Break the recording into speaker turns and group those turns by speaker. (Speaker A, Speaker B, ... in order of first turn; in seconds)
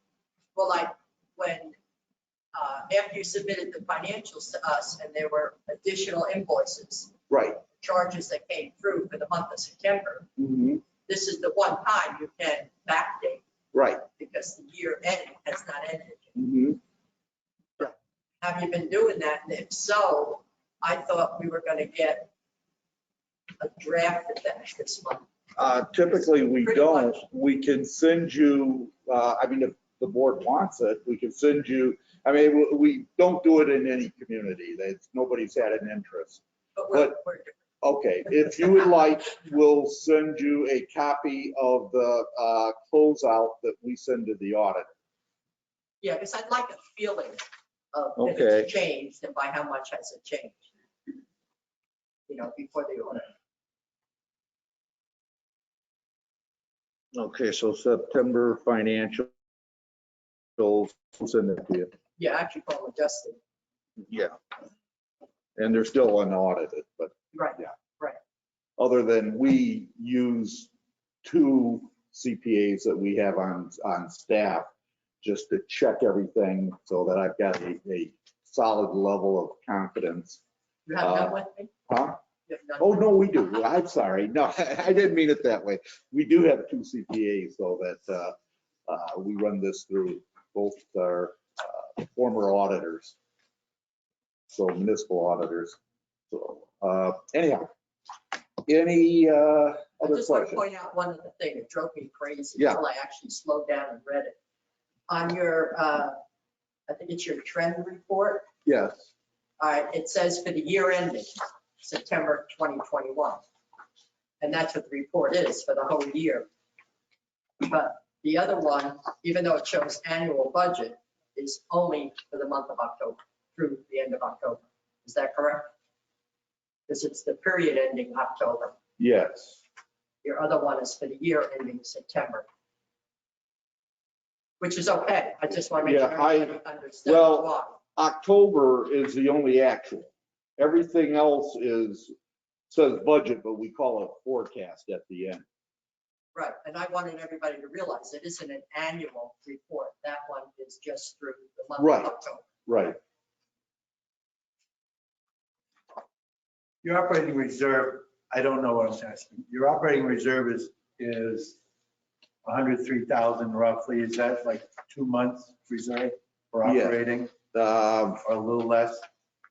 Speaker A: 0.6-1.8, 2.5-7.1, 7.8-10.3, 11.1-13.4, 14.0-16.4, 17.8-22.3, 23.6-25.2, 26.6-27.2, 36.8-37.6, 46.0-47.4, 47.9-50.7, 52.3-53.3, 62.2-63.4, 67.3-68.2, 80.9-81.7, 82.5-83.6, 100.0-104.3, 105.1-106.2, 106.9-108.5, 109.6-113.4, 114.4-116.5, 117.6-125.7, 126.9-128.8, 130.2-132.5, 134.6-137.8, 146.3-152.5
Speaker B: 7.3-7.6, 10.4-10.8, 13.7-14.0, 16.4-16.8, 25.6-37.2, 37.8-44.9, 48.2-48.7, 57.1-59.3, 60.6-61.9, 64.1-64.4, 65.6-67.7, 68.8-70.7, 71.2-74.7, 75.2-80.4, 81.0-82.2, 82.8-88.3, 88.9-93.2, 94.5-95.8, 96.3-97.7, 98.7-100.6, 102.6-102.8, 108.7-109.1, 129.0-129.6, 135.8-142.1, 142.7-145.4, 151.8-152.1, 152.7-153.0, 166.6-168.2
Speaker C: 156.8-161.6, 162.4-167.3, 168.2-169.0